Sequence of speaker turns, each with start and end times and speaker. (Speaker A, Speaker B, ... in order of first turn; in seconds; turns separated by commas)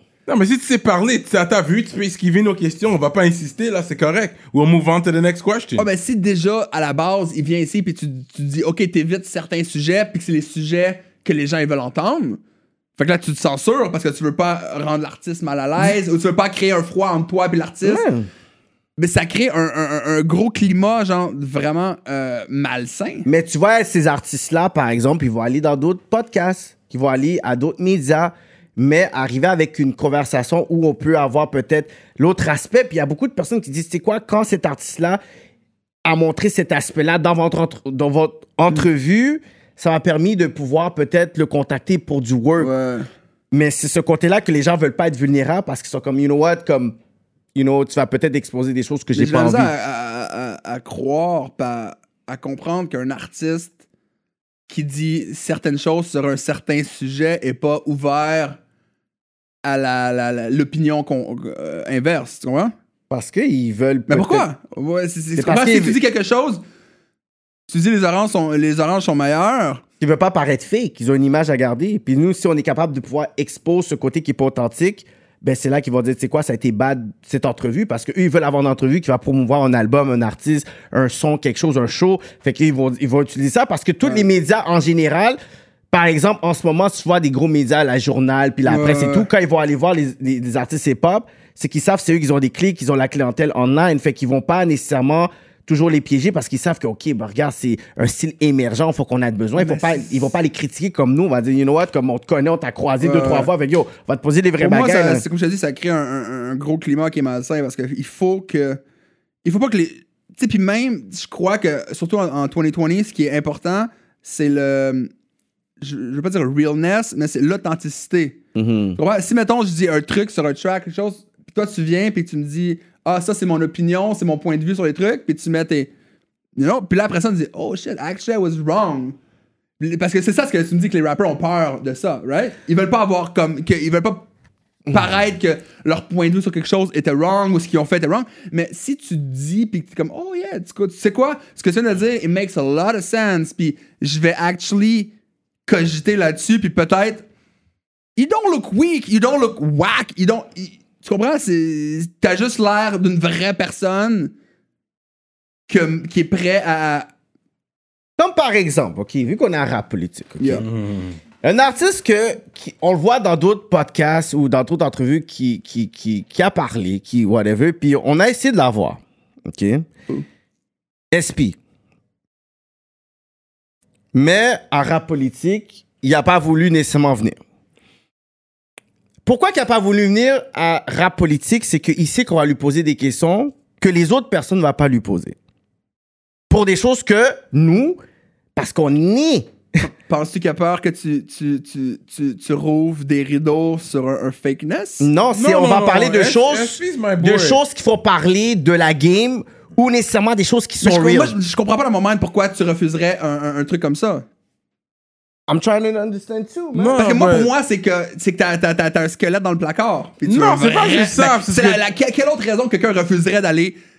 Speaker A: 0.3-5.9, Speaker B: 5.8-12.4, Speaker B: 13.0-18.0, Speaker C: 17.8-18.3, Speaker B: 19.0-23.3, Speaker C: 23.2-35.2, Speaker C: 36.0-42.7, Speaker B: 42.6-43.1, Speaker C: 43.5-47.0, Speaker C: 47.5-49.7, Speaker B: 49.1-53.8, Speaker B: 54.7-58.6, Speaker B: 59.6-62.7, Speaker C: 63.1-64.5, Speaker B: 64.1-66.6, Speaker C: 65.4-66.0, Speaker B: 67.7-69.8, Speaker C: 70.0-85.4, Speaker C: 85.9-105.2, Speaker B: 88.7-89.3, Speaker B: 99.6-100.3, Speaker B: 103.0-103.5, Speaker B: 104.6-108.8, Speaker B: 109.4-115.1, Speaker B: 115.8-118.4, Speaker C: 118.6-119.0, Speaker B: 119.0-125.9, Speaker B: 126.6-129.2, Speaker B: 129.8-134.3, Speaker B: 134.9-145.1, Speaker B: 145.7-147.2, Speaker B: 148.2-154.3, Speaker B: 155.7-157.1, Speaker C: 158.2-160.7, Speaker B: 160.4-160.6, Speaker A: 160.6-161.2, Speaker C: 161.4-169.9, Speaker C: 171.1-171.6, Speaker C: 174.1-177.4, Speaker C: 179.2-185.4, Speaker C: 186.5-188.0, Speaker C: 188.6-189.5, Speaker B: 189.8-195.1, Speaker C: 195.0-201.3, Speaker A: 195.3-197.6, Speaker B: 200.8-204.2, Speaker C: 205.5-207.0, Speaker A: 206.7-207.5, Speaker B: 207.0-213.8, Speaker A: 210.2-211.8